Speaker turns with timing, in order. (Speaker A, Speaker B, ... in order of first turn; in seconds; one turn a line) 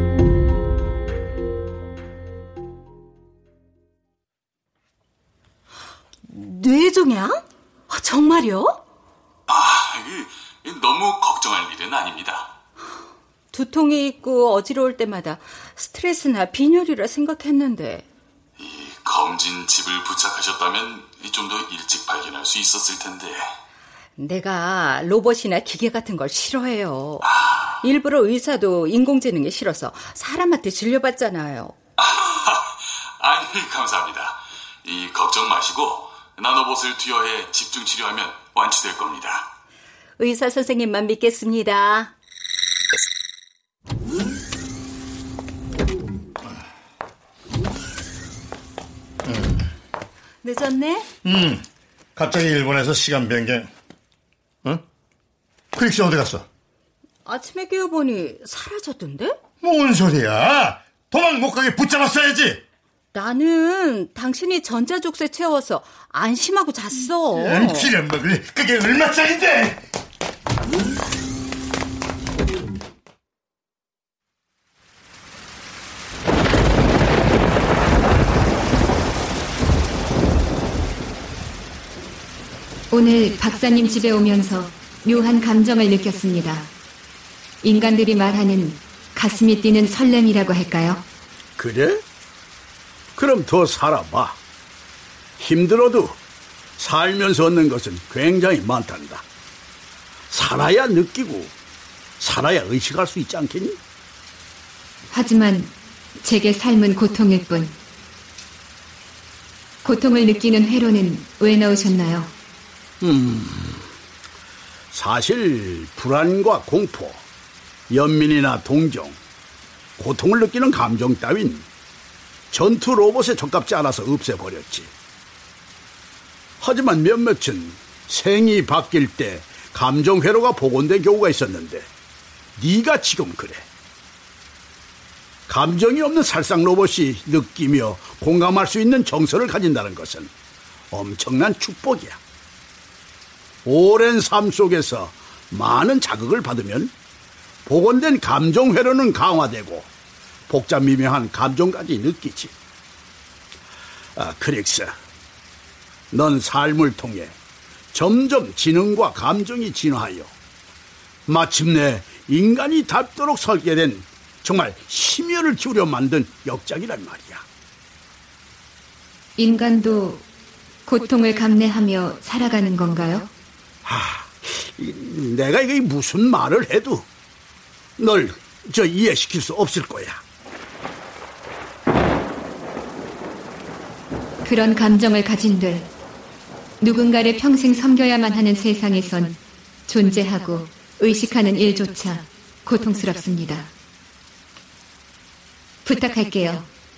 Speaker A: 6.2-8.8
Speaker B: 9.5-12.5
Speaker A: 13.5-18.1
Speaker B: 18.6-23.5
Speaker A: 24.2-27.3
Speaker B: 27.4-27.6
Speaker A: 27.8-31.8
Speaker B: 32.0-39.5
Speaker A: 40.2-42.1
Speaker C: 49.2-49.7
Speaker A: 50.4-51.1
Speaker C: 51.2-53.7
Speaker C: 55.7-56.5
Speaker A: 57.3-59.4
Speaker C: 59.6-62.6
Speaker A: 63.1-67.9
Speaker C: 67.4-69.8
Speaker D: 82.9-86.7
Speaker D: 87.6-91.0
Speaker E: 91.6-92.0
Speaker E: 93.2-94.4
Speaker E: 95.4-96.2
Speaker E: 96.8-99.2
Speaker E: 100.3-101.5
Speaker E: 102.2-103.8
Speaker D: 105.1-107.8
Speaker D: 109.8-112.3
Speaker E: 113.0-113.9
Speaker E: 114.9-117.2
Speaker E: 117.9-119.2
Speaker E: 120.0-121.7
Speaker E: 122.5-124.9
Speaker E: 126.6-131.9
Speaker E: 132.6-133.7
Speaker E: 135.5-140.3
Speaker E: 140.9-142.2
Speaker E: 143.7-146.9
Speaker E: 147.7-149.9
Speaker E: 150.5-152.5
Speaker E: 154.2-154.9
Speaker E: 156.1-157.4
Speaker E: 157.9-160.3
Speaker E: 161.3-167.4
Speaker D: 169.4-170.2
Speaker D: 170.9-173.3
Speaker E: 173.8-177.1
Speaker E: 178.0-180.2
Speaker D: 184.4-185.9
Speaker D: 186.8-193.7
Speaker D: 195.8-196.7